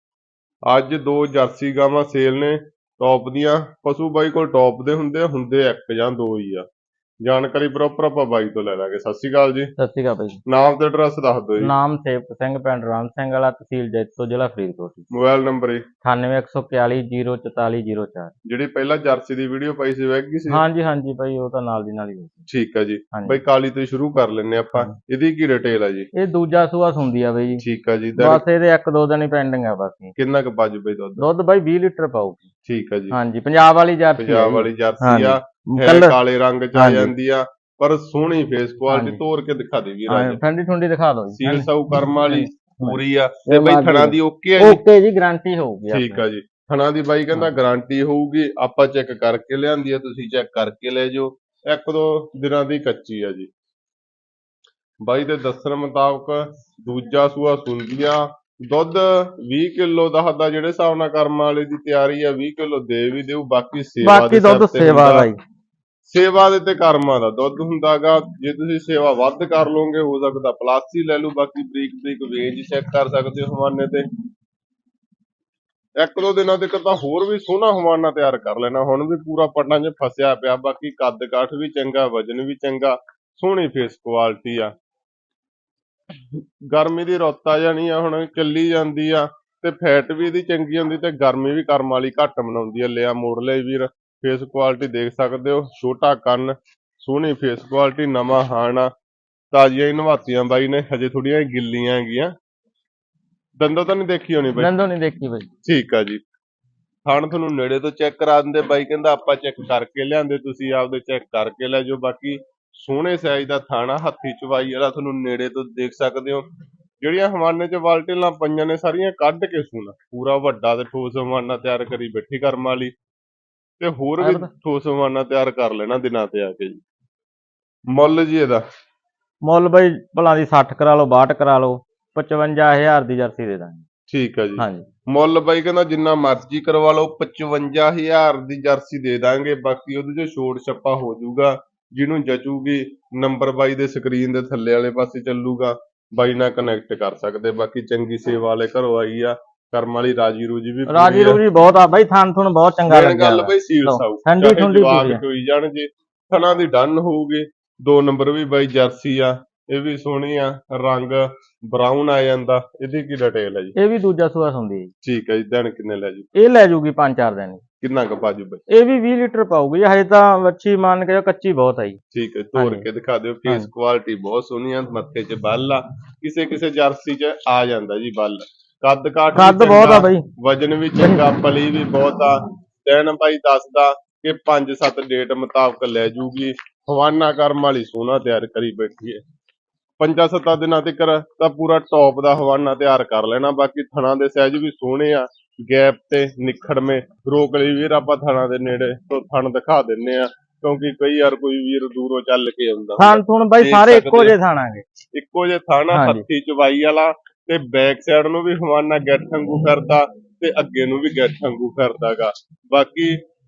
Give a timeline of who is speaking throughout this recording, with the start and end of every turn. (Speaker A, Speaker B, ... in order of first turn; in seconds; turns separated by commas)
Speaker A: 0.7-6.7, Speaker A: 7.2-9.7, Speaker B: 9.8-10.4, Speaker A: 10.5-11.7, Speaker B: 11.6-15.1, Speaker A: 15.1-15.8, Speaker B: 16.0-18.3, Speaker A: 18.5-20.6, Speaker B: 20.5-22.4, Speaker A: 22.5-26.1, Speaker B: 23.1-23.4, Speaker B: 26.1-27.6, Speaker A: 27.6-28.4, Speaker B: 28.2-30.1, Speaker A: 30.2-31.2, Speaker B: 31.2-32.5, Speaker A: 32.7-33.2, Speaker B: 33.1-36.2, Speaker A: 34.2-40.4, Speaker B: 36.7-37.1, Speaker B: 38.9-39.2, Speaker B: 40.1-46.2, Speaker A: 41.4-44.8, Speaker A: 45.9-53.5, Speaker A: 55.0-65.3, Speaker B: 64.0-65.4, Speaker A: 66.1-74.0, Speaker A: 76.0-84.7, Speaker A: 86.3-98.9, Speaker A: 99.5-102.3, Speaker A: 103.6-104.7, Speaker B: 104.6-105.5, Speaker A: 105.7-106.2, Speaker A: 107.1-116.5, Speaker A: 117.0-122.9, Speaker A: 123.8-126.8, Speaker B: 124.2-124.5, Speaker A: 127.9-128.6, Speaker B: 129.4-133.8, Speaker A: 134.1-151.4, Speaker B: 134.6-134.9, Speaker B: 150.9-155.2, Speaker A: 152.9-163.8, Speaker B: 163.8-164.9, Speaker A: 165.0-166.3, Speaker B: 166.3-167.6, Speaker A: 167.8-168.6, Speaker B: 168.7-172.0, Speaker A: 172.1-189.2, Speaker B: 172.6-172.9, Speaker B: 179.4-180.2, Speaker B: 181.0-181.3, Speaker A: 190.0-204.3, Speaker B: 203.0-204.8, Speaker A: 205.1-213.2, Speaker B: 205.9-206.2